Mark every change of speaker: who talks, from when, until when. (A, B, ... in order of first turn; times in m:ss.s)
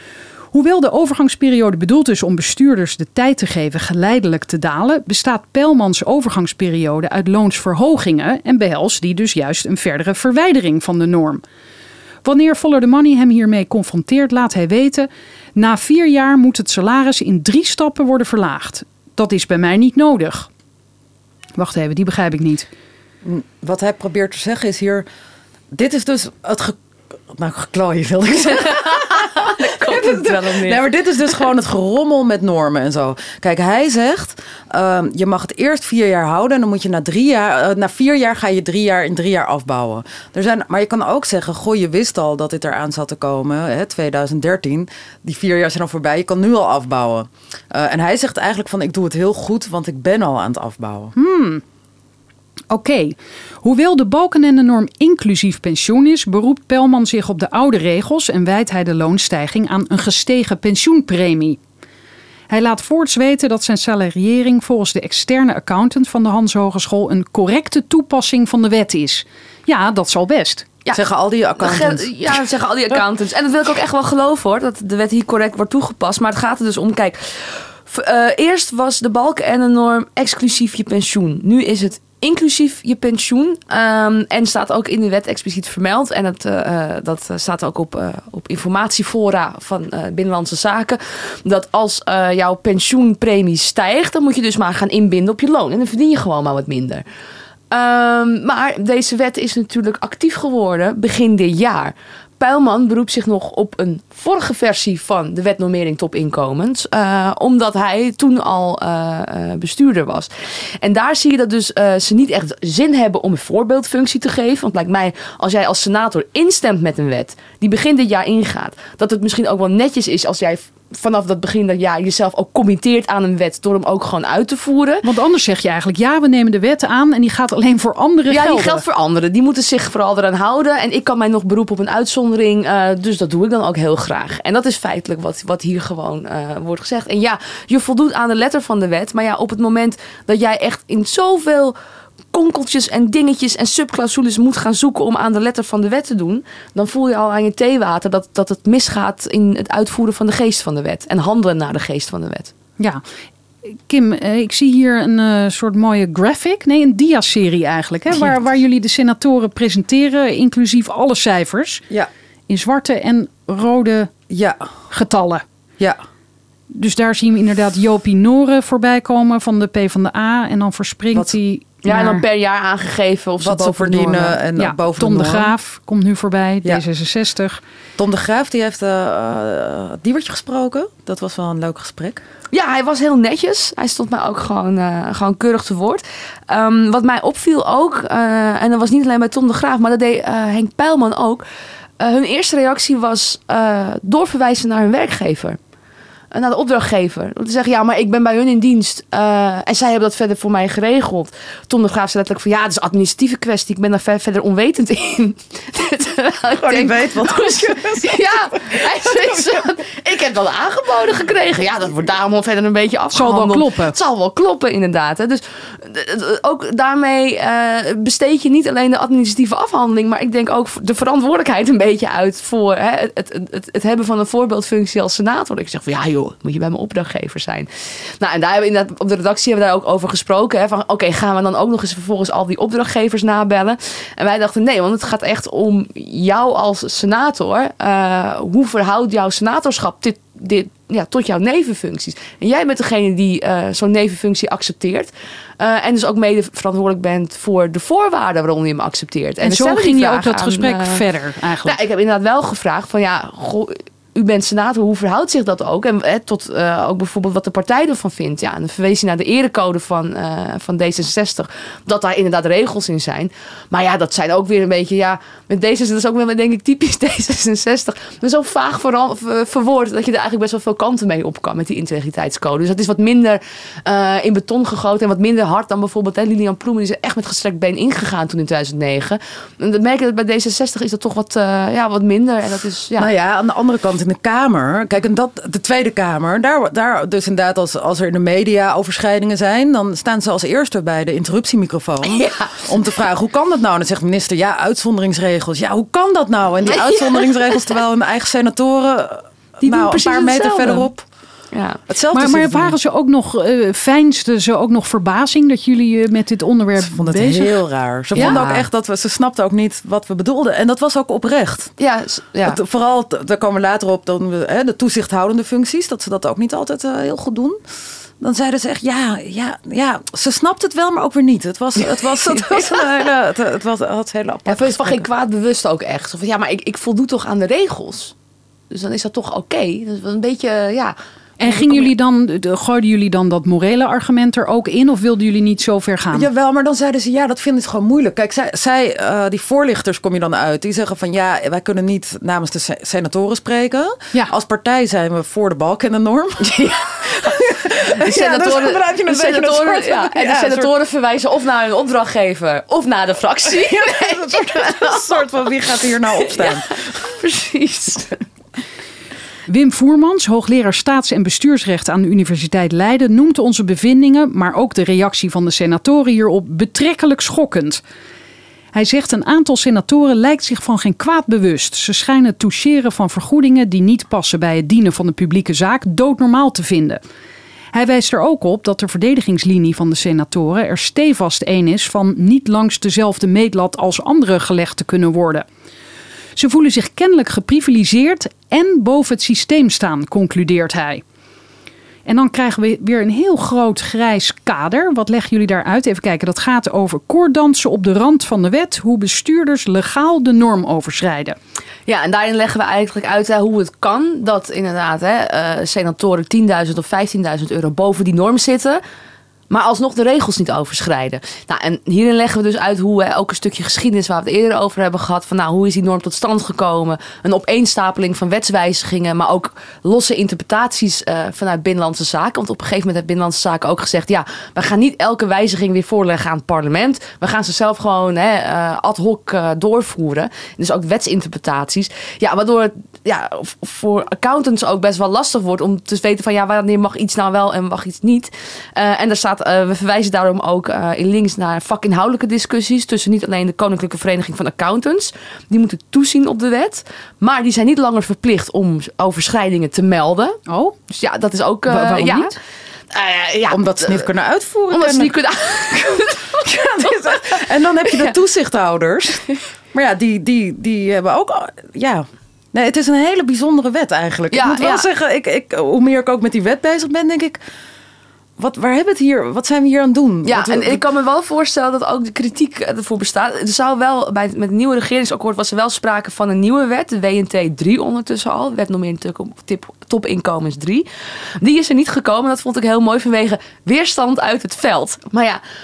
0:00.5-0:11.4 A
0:12.2-0:20.5 A
0:21.6-0:22.7 A
0:23.2-0:25.0 B
0:25.7-0:26.8 B
0:27.3-0:51.1 B
0:28.5-0:30.8 C
0:51.2-0:51.6 A
0:52.7-1:01.6 A
1:02.5-1:10.6 A
1:10.9-1:12.4 B
1:11.6-1:37.0 C
1:37.7-1:50.3 C
1:50.8-2:05.0 C
2:05.0-2:08.8 A
2:08.3-2:21.7 C
2:22.3-2:32.5 C
2:33.6-2:41.8 A
2:42.5-2:44.1 A
2:44.3-2:44.7 B
2:44.9-2:45.4 A
2:46.7-2:52.2 A
2:51.8-2:54.4 C
2:53.4-2:55.5 B
2:54.6-2:57.6 A
2:58.0-3:02.2 B
3:02.5-3:11.4 C
3:12.0-3:15.6 C
3:16.3-4:11.0 C
3:26.6-3:29.5 B
3:33.1-3:33.9 A
4:09.4-4:11.8 A
4:11.6-4:43.1 C
4:43.0-5:01.0 B
4:52.0-4:52.6 C
4:56.6-4:57.8 C
4:59.6-5:00.9 C
5:01.5-5:01.8 C
5:01.9-5:02.8 B
5:02.1-5:07.6 A
5:06.8-5:11.7 B
5:08.1-5:08.4 A
5:08.1-5:08.7 C
5:11.8-5:12.6 C
5:12.4-5:17.6 B
5:18.2-5:25.1 B
5:21.8-5:22.9 C
5:24.5-5:28.1 C
5:28.7-5:31.9 C
5:31.4-5:36.3 A
5:36.1-5:46.6 B
5:46.4-5:55.2 C
5:47.5-5:50.7 B
5:53.6-5:56.8 B
5:56.1-5:58.2 C
5:59.5-6:07.8 A
6:08.7-6:17.0 A
6:17.7-6:25.4 A
6:26.4-6:31.0 A
6:32.0-6:41.4 A
6:41.9-6:48.8 C
6:49.5-7:30.4 C
7:30.5-7:30.8 A
7:30.9-7:32.3 C
7:31.7-7:32.3 A
7:32.9-7:34.1 C
7:33.5-7:35.1 B
7:34.7-7:38.1 C
7:35.7-7:39.2 B
7:39.7-7:47.4 B
7:44.3-7:44.8 C
7:48.4-7:50.8 B
7:50.2-8:00.8 C
8:01.4-8:05.4 C